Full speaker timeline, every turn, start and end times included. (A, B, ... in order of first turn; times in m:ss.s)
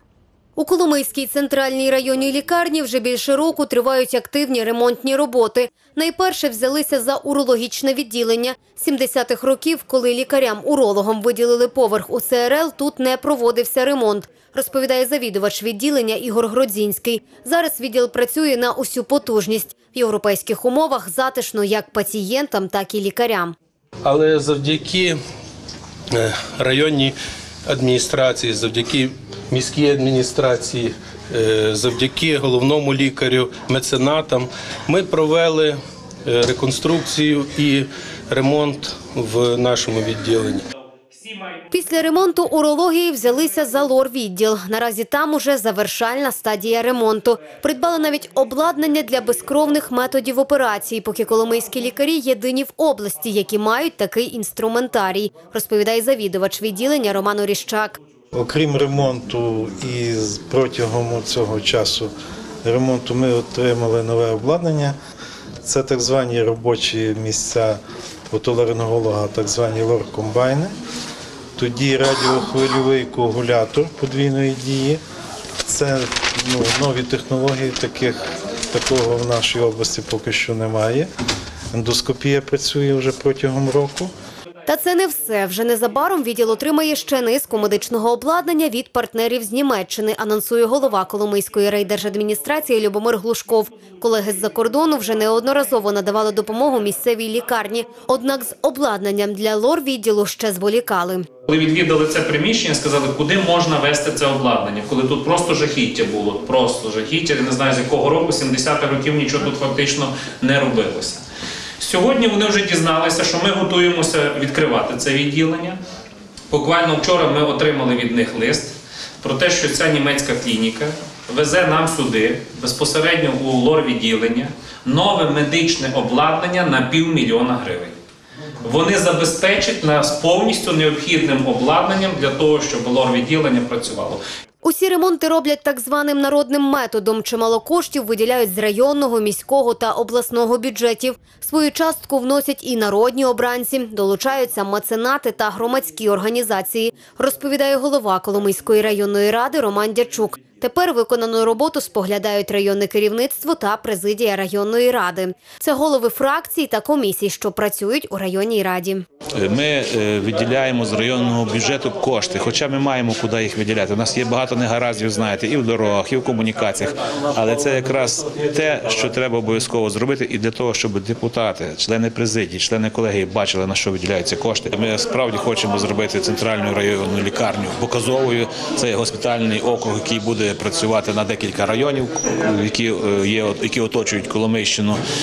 0:00.6-0:23.5 A
0:24.0-0:25.2 B
0:26.1-0:40.6 B
0:41.7-0:58.0 A
0:58.3-1:02.1 C
1:02.6-1:04.9 C
1:05.6-1:07.8 C
1:08.3-1:10.7 C
1:11.6-1:15.0 C
1:15.6-1:18.2 C
1:18.7-1:21.1 C
1:21.7-1:24.1 C
1:24.7-1:41.3 A
1:41.5-1:51.2 D
1:51.8-1:55.8 D
1:56.5-2:07.9 D
2:08.6-2:14.2 D
2:14.6-2:39.0 A
2:39.3-3:05.0 E